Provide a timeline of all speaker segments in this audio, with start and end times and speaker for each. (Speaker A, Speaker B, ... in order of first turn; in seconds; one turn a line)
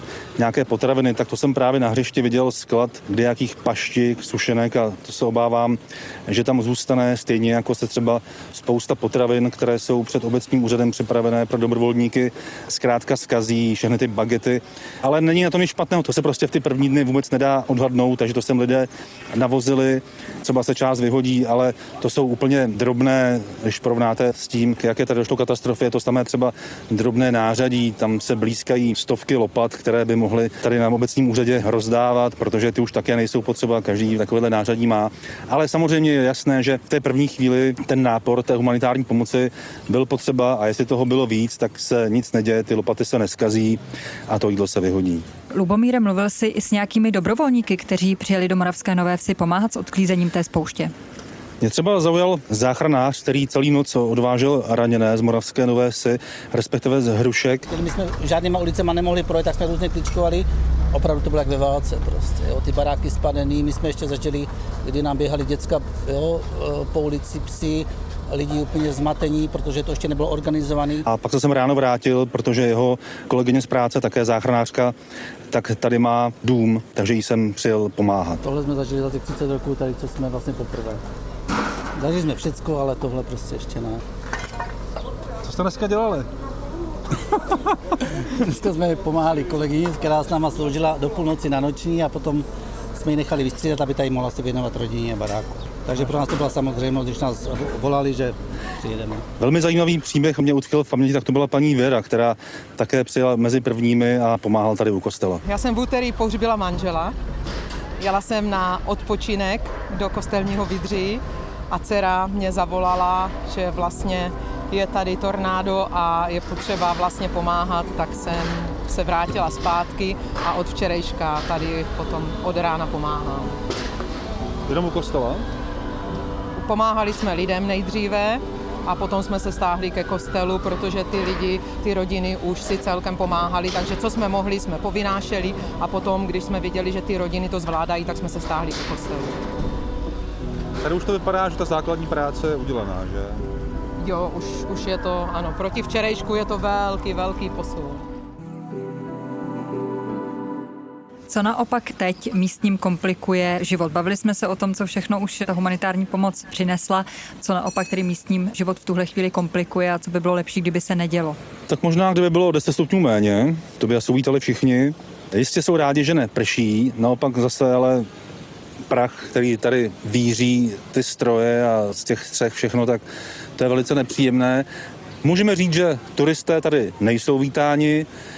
Speaker A: 0.4-45.2
Speaker B: 45.5-50.9
Speaker A: 51.6-57.6
Speaker C: 57.7-71.1
Speaker A: 71.1-75.0
Speaker A: 75.5-78.4
Speaker C: 78.4-81.0
Speaker C: 82.0-84.0
Speaker D: 85.4-86.3
Speaker C: 88.3-99.2
Speaker A: 99.4-105.4
Speaker E: 105.5-107.2
Speaker E: 108.0-123.6
Speaker D: 124.7-125.5
Speaker E: 126.5-139.4
Speaker D: 140.9-143.4
Speaker E: 144.0-148.1
Speaker B: 151.3-161.4
Speaker A: 161.7-168.1
Speaker A: 168.9-173.0
Speaker A: 173.6-174.7
Speaker A: 175.2-178.1